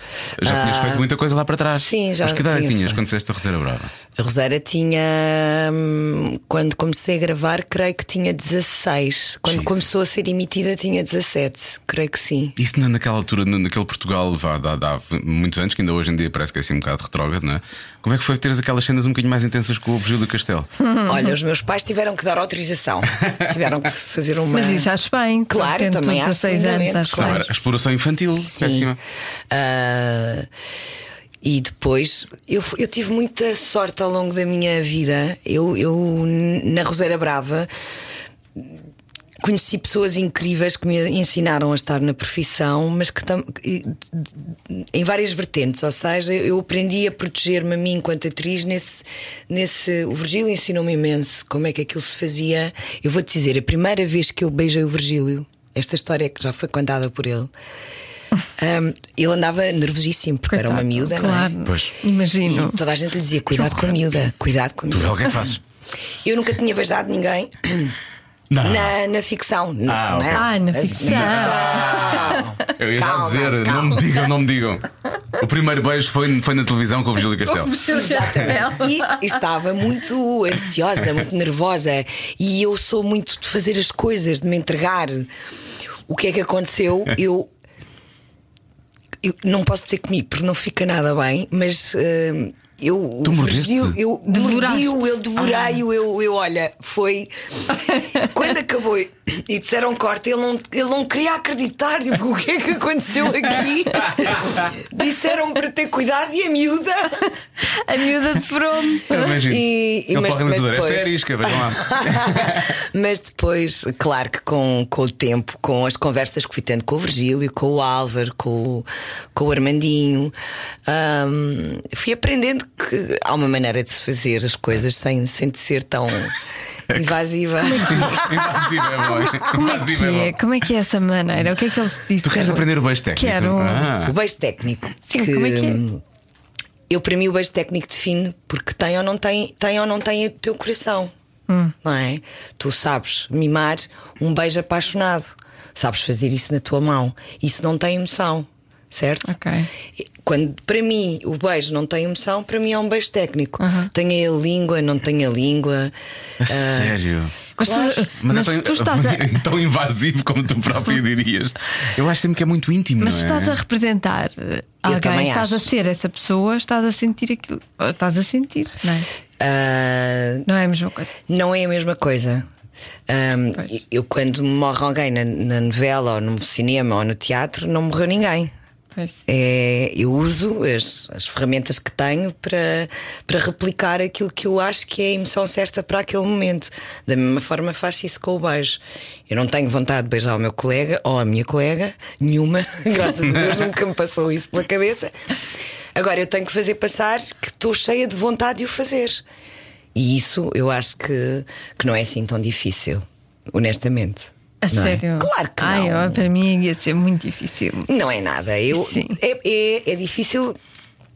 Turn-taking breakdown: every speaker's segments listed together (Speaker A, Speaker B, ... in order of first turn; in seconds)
Speaker A: 0.4-3.9, 9.5-9.8, 12.6-20.7, 27.1-29.0, 61.6-61.9, 64.9-65.6, 68.5-69.0, 69.9-78.5, 93.2-94.0, 109.1-112.8, 127.8-130.4, 132.2-134.1, 156.4-157.4, 158.2-163.6
Speaker B: 0.4-1.1, 1.8-3.0, 4.2-12.6, 21.1-24.9, 25.5-27.5, 28.5-28.9, 29.5-30.5, 31.4-37.7, 39.4-57.5, 58.6-61.5, 62.4-65.5, 66.2-68.0, 68.6-74.1, 77.9-85.3, 86.1-87.5, 89.2-107.3, 109.5-120.3, 120.9-126.3, 126.9-129.3, 134.0-136.0, 136.9-141.1, 141.8-149.3, 150.0-157.0, 157.6-158.1, 164.8-165.7, 169.4-170.5, 171.3-172.5, 173.1-178.5, 179.3-195.2, 195.9-199.2, 199.9-206.2, 207.9-210.6
Speaker C: 20.8-21.2, 24.5-27.4, 60.5-62.8, 70.3-72.2, 77.4-79.4, 94.2-95.7, 97.9-98.3, 107.6-109.3, 127.6-128.1, 129.4-133.9, 135.1-135.8, 141.5-141.8, 149.2-149.7, 153.6-153.9, 157.6-159.3, 163.0-169.1, 170.4-171.1, 204.6-207.9, 208.7-209.2